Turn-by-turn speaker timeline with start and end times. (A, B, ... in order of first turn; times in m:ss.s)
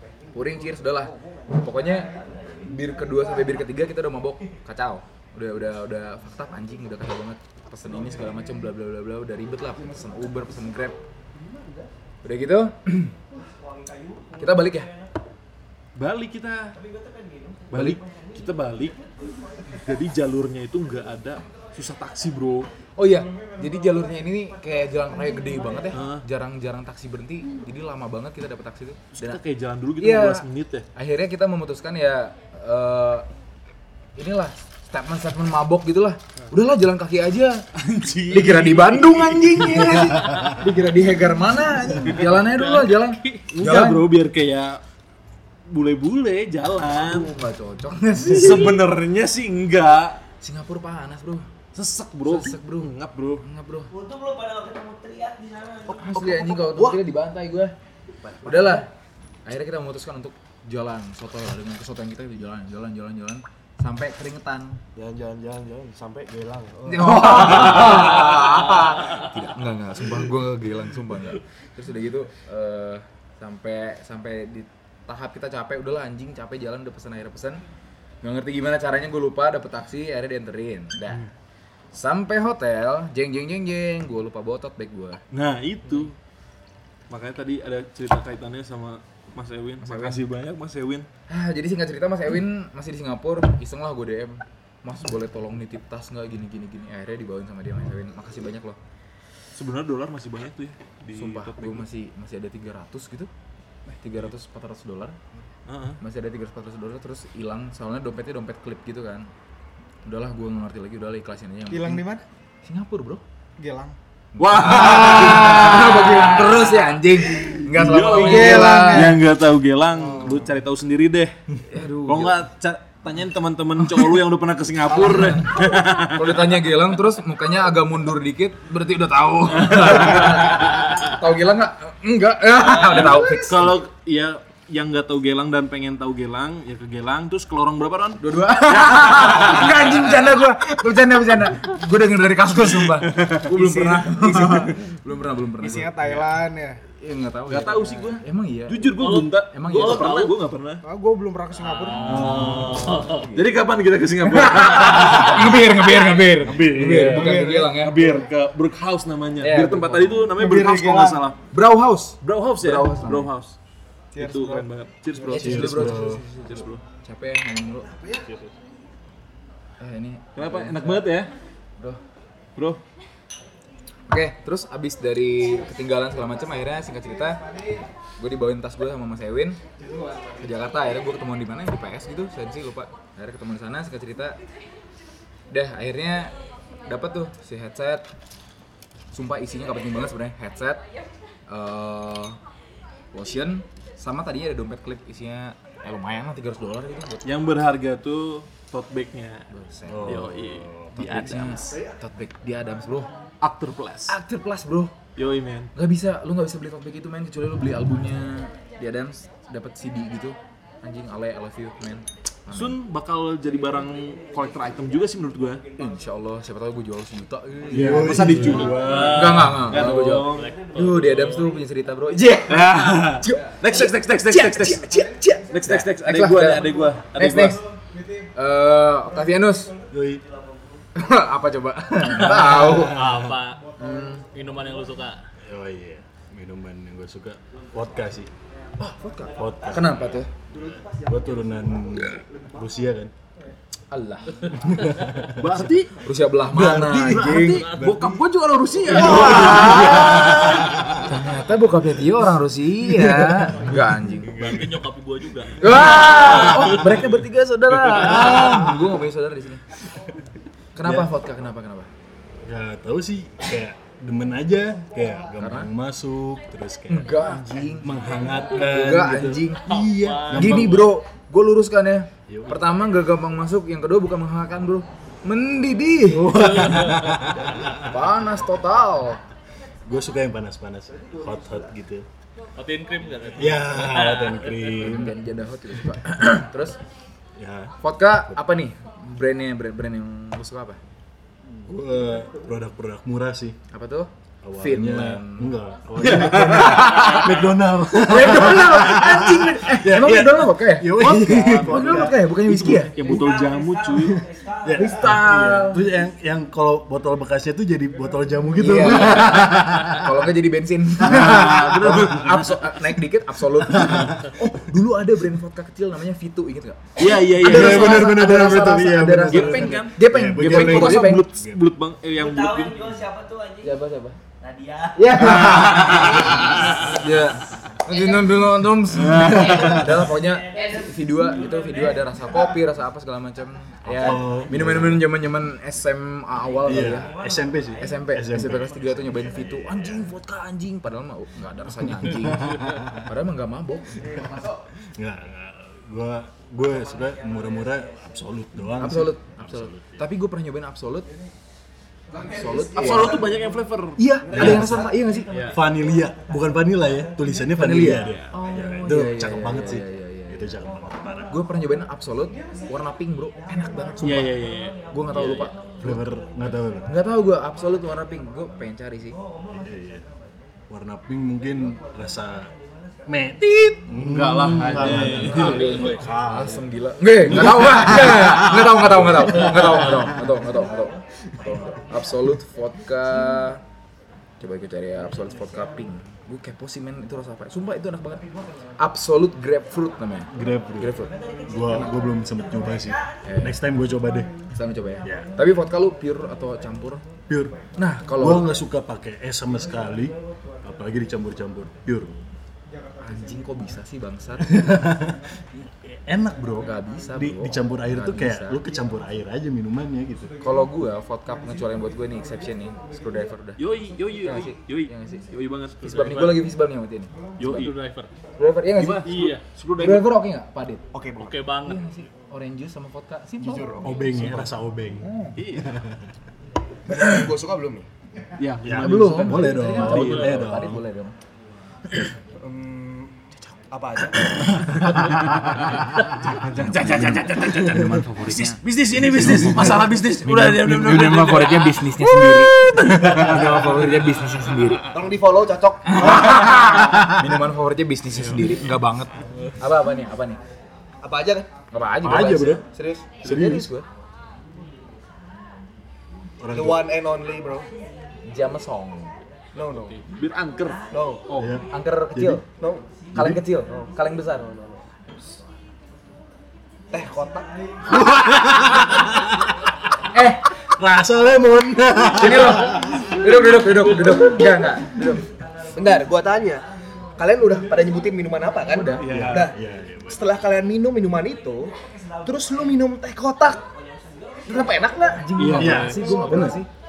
0:00.3-0:11.0 A
0:11.5-0:11.8 B
0:12.2-0:13.1 A
0:13.4-0:15.0 C
0:14.4-0:14.9 A
0:16.0-0:16.8 D
0:16.8-0:17.7 C
0:17.7-0:19.0 D
0:17.7-0:18.0 A
0:19.7-0:22.7 D
0:23.0-0:29.4 A
0:25.9-0:26.2 D
0:29.1-0:30.8 D
0:30.0-0:33.2 A
0:34.2-0:37.6 A
0:37.8-0:39.9 D
0:38.3-0:44.1 A
0:42.3-0:43.5 E
0:43.5-0:44.8 D
0:45.7-0:47.3 D
0:46.9-0:48.8 A
0:48.2-0:50.2 D
0:50.4-0:51.5 A
0:51.7-0:53.4 D
0:52.2-0:53.9 A
0:53.9-0:56.0 C
0:55.9-0:57.0 B
0:56.0-0:57.7 A
0:58.3-0:58.7 B
0:58.4-0:58.9 A
0:59.4-1:04.8 A
1:04.9-1:07.5 B
1:06.9-1:17.6 A
1:07.6-1:07.8 D
1:18.2-1:21.3 A
1:21.9-1:25.2 A
1:25.3-1:26.2 D
1:27.1-1:31.1 D
1:29.8-1:30.2 A
1:31.3-1:38.8 A
1:39.5-1:41.8 D
1:41.1-1:43.3 A
1:43.9-1:45.2 A
1:45.7-1:46.0 D
1:46.0-1:49.3 A
1:50.0-1:52.1 A
1:51.7-1:52.2 B
1:52.6-1:53.2 A
1:53.6-1:54.0 B
1:54.3-1:59.2 A
1:54.4-1:56.5 D
1:57.6-2:01.4 D
1:58.2-1:59.2 B
2:00.2-2:00.5 B
2:01.7-2:02.4 A
2:02.0-2:06.4 D
2:04.9-2:13.8 A
2:09.6-2:10.5 D
2:12.7-2:20.0 D
2:18.2-2:26.0 A
2:23.2-2:23.4 D
2:23.6-2:24.7 B
2:25.6-2:26.8 B
2:26.0-2:26.4 D
2:27.0-2:30.2 A
2:27.5-2:30.8 D
2:29.0-2:30.3 E
2:30.8-2:32.1 B
2:31.6-2:33.2 E
2:32.1-2:32.8 F
2:32.1-2:32.7 D
2:32.1-2:33.5 A
2:33.3-2:41.4 D
2:34.2-2:38.1 A
2:37.1-2:37.7 B
2:39.4-2:40.3 A
2:40.4-2:41.2 B
2:41.5-2:43.3 A
2:42.2-2:43.6 D
2:44.1-2:44.6 B
2:44.2-2:46.8 D
2:45.2-2:45.5 B
2:45.2-2:46.2 A
2:45.3-2:46.2 F
2:46.0-2:46.6 B
2:47.0-2:47.9 A
2:47.9-2:48.2 B
2:49.8-2:51.2 A
2:50.4-2:51.3 D
2:52.6-2:52.8 D
2:54.1-2:57.4 A
2:58.2-2:59.6 A
3:00.0-3:00.3 B
3:00.4-3:04.4 A
3:05.5-3:08.0 A
3:09.1-3:10.8 A
3:11.5-3:12.4 A
3:13.1-3:17.2 A
3:17.2-3:19.5 D
3:19.5-3:20.3 A
3:19.9-3:21.2 F
3:20.0-3:21.8 D
3:20.9-3:23.1 A
3:23.4-3:24.2 D
3:24.1-3:24.9 A
3:25.2-3:25.7 D
3:25.7-3:32.8 A
3:32.5-3:35.6 D
3:33.7-3:35.8 C
3:35.8-3:47.6 A
3:37.7-3:39.6 F
3:37.9-3:40.5 D
3:38.5-3:41.5 E
3:42.5-3:44.9 D
3:45.5-3:47.6 D
3:48.3-3:49.7 A
3:49.9-3:50.2 F
3:50.9-3:53.1 A
3:52.0-3:53.6 E
3:53.8-3:54.2 A
3:54.3-3:55.2 E
3:55.4-3:58.3 F
3:58.8-4:00.3 A
3:59.4-4:03.1 F
3:59.5-4:00.0 C
4:00.6-4:01.3 B
4:03.9-4:04.7 A
4:04.6-4:05.6 F
4:05.4-4:05.9 D
4:05.5-4:07.7 A
4:06.4-4:08.0 F
4:07.0-4:10.4 D
4:07.3-4:08.1 E
4:08.7-4:14.7 A
4:08.9-4:10.9 F
4:13.0-4:13.4 F
4:14.4-4:16.7 E
4:15.6-4:19.6 A
4:17.9-4:18.9 F
4:20.8-4:21.9 A
4:22.4-4:30.9 F
4:25.4-4:25.7 A
4:26.9-4:27.9 A
4:28.5-4:29.7 A
4:29.6-4:30.8 E
4:30.3-4:36.7 A
4:32.3-4:32.8 F
4:36.1-4:37.9 F
4:37.8-4:39.2 A
4:39.8-4:42.0 F
4:42.6-4:44.6 E
4:43.3-4:45.2 F
4:44.7-4:46.8 A
4:47.4-4:48.4 F
4:47.8-4:50.8 A
4:51.4-4:53.6 F
4:53.7-5:02.9 A
4:54.4-5:03.2 F
4:56.1-4:56.8 D
5:02.6-5:04.2 D
5:03.0-5:05.2 C
5:04.6-5:10.2 F
5:04.7-5:05.8 A
5:08.6-5:21.2 A
5:11.0-5:12.2 F
5:11.0-5:12.7 D
5:13.6-5:14.4 F
5:17.0-5:18.2 D
5:17.1-5:21.6 F
5:19.3-5:22.9 D
5:22.1-5:23.8 C
5:23.6-5:24.2 A
5:24.4-5:25.5 C
5:25.0-5:37.1 A
5:25.4-5:26.4 D
5:26.3-5:27.0 C
5:27.9-5:28.2 C
5:29.1-5:32.0 C
5:29.3-5:29.7 F
5:33.8-5:35.1 F
5:36.5-5:38.4 C
5:36.6-5:40.0 F
5:37.8-5:44.0 A
5:39.0-5:39.7 C
5:41.9-5:43.1 F
5:44.9-5:50.0 F
5:46.8-5:48.0 C
5:48.8-5:51.1 A
5:52.1-5:53.4 B
5:52.3-5:53.3 A
5:52.7-5:54.6 D
5:54.0-5:55.4 A
5:54.3-5:54.9 F
5:54.3-5:54.8 B
5:55.3-5:55.6 D
5:55.4-6:01.3 F
5:57.5-6:00.5 A
6:01.3-6:06.1 A
6:04.0-6:05.5 D
6:05.8-6:06.9 F
6:06.8-6:09.2 A
6:09.5-6:10.0 F
6:10.7-6:12.5 F
6:13.0-6:16.7 F
6:13.9-6:16.0 D
6:15.2-6:23.6 A
6:17.2-6:20.4 F
6:24.4-6:28.2 A
6:28.8-6:31.1 A
6:30.3-6:34.3 F
6:31.2-6:32.9 C
6:33.2-6:33.6 A
6:34.5-6:37.0 A
6:35.0-6:35.3 F
6:37.3-6:37.6 F
6:37.8-6:38.6 A
6:38.1-6:42.2 F
6:43.0-6:44.7 A
6:44.5-6:50.3 F
6:46.6-6:48.6 A
6:50.4-6:53.6 A
6:53.6-6:56.5 D
6:54.2-6:57.7 A
6:57.4-6:57.7 D
6:57.5-6:58.1 E
6:58.4-7:00.8 A
6:58.8-7:00.1 D
6:58.8-6:59.4 E
7:00.9-7:01.5 B
7:01.2-7:01.8 E
7:01.6-7:04.5 A
7:03.4-7:06.0 F
7:05.0-7:05.4 A
7:05.4-7:05.8 D
7:06.9-7:07.9 B
7:08.4-7:10.3 D
7:08.6-7:10.8 F
7:08.7-7:11.1 A
7:12.4-7:14.6 B
7:14.0-7:15.4 A
7:16.2-7:24.9 A
7:16.3-7:21.9 D
7:22.9-7:23.6 D
7:23.0-7:23.4 F
7:24.9-7:26.4 B
7:25.9-7:30.4 A
7:28.1-7:28.6 D
7:31.0-7:31.5 B
7:31.7-7:33.8 A
7:32.0-7:32.6 F
7:32.6-7:33.2 B
7:33.2-7:33.7 F
7:36.4-7:36.8 F
7:36.5-7:37.7 B
7:38.2-7:39.1 A
7:39.6-7:40.0 B
7:39.6-7:40.0 E
7:40.0-7:41.6 D
7:40.9-7:41.3 B
7:41.3-7:42.4 F
7:41.7-7:42.4 A
7:42.4-7:42.9 B
7:43.1-7:43.4 F
7:43.1-7:44.5 A
7:43.7-7:44.8 B
7:46.9-7:47.5 B
7:47.9-7:49.4 F
7:50.1-7:50.4 A
7:50.7-7:53.2 F
7:52.1-7:55.3 A
7:55.6-7:56.1 C
7:55.7-7:56.6 B
7:57.2-8:01.7 B
7:58.6-7:59.2 A
7:59.0-7:59.5 D
7:59.0-8:00.2 F
8:01.7-8:02.8 C
8:02.2-8:03.6 B
8:03.4-8:05.2 C
8:04.4-8:05.4 B
8:05.2-8:06.7 A
8:05.4-8:06.2 D
8:05.5-8:06.6 F